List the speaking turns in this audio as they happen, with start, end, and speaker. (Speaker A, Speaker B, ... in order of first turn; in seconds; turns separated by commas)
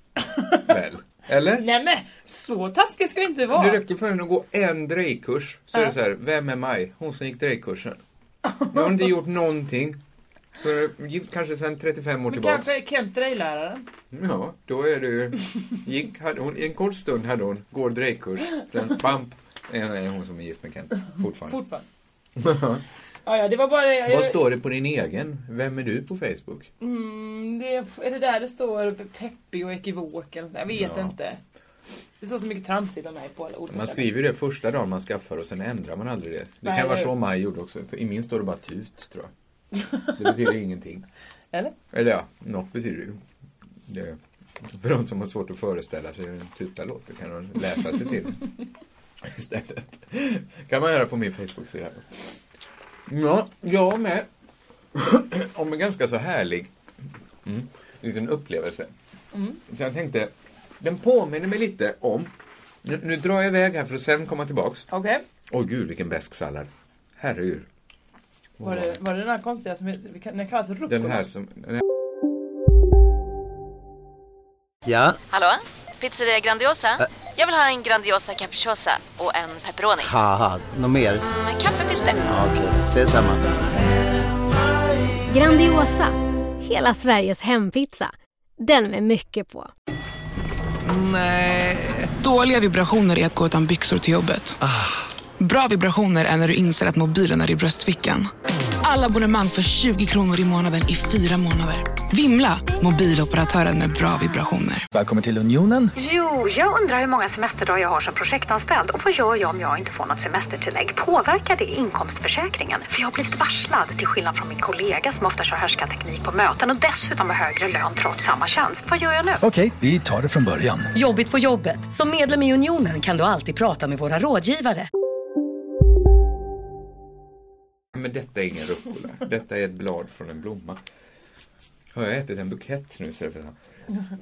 Speaker A: 0.3-0.6, Speaker B: 0.5-1.6, Speaker A: 1.6-3.8, Speaker B: 3.5-8.0, Speaker A: 8.5-8.8, Speaker B: 8.6-10.0, Speaker B: 10.6-12.7, Speaker A: 12.3-13.9, Speaker B: 14.1-21.6, Speaker A: 21.5-21.9, Speaker B: 22.4-22.8, Speaker A: 23.2-24.4, Speaker B: 24.0-26.7, Speaker A: 26.8-31.4, Speaker B: 30.7-31.1, Speaker A: 32.2-34.1, Speaker B: 33.7-39.3, Speaker A: 36.6-37.1, Speaker B: 40.1-41.1, Speaker B: 41.9-43.2, Speaker B: 43.9-48.5, Speaker B: 49.2-52.2, Speaker B: 53.1-54.3, Speaker B: 54.9-56.7, Speaker B: 57.4-58.9, Speaker A: 59.3-59.6, Speaker B: 59.7-62.3, Speaker B: 62.8-64.9, Speaker A: 64.9-65.2, Speaker B: 65.5-67.7, Speaker B: 68.6-69.0, Speaker A: 68.6-71.2, Speaker B: 70.9-71.8, Speaker C: 74.9-75.2, Speaker D: 75.3-80.1, Speaker C: 80.0-81.2, Speaker D: 81.2-82.4, Speaker C: 82.3-83.5, Speaker E: 85.3-89.7, Speaker F: 92.0-94.6, Speaker F: 95.4-98.3, Speaker F: 98.8-104.8, Speaker G: 104.9-105.9, Speaker H: 105.9-119.4, Speaker G: 119.4-120.9, Speaker I: 120.9-124.9, Speaker B: 127.9-130.8, Speaker B: 131.9-133.6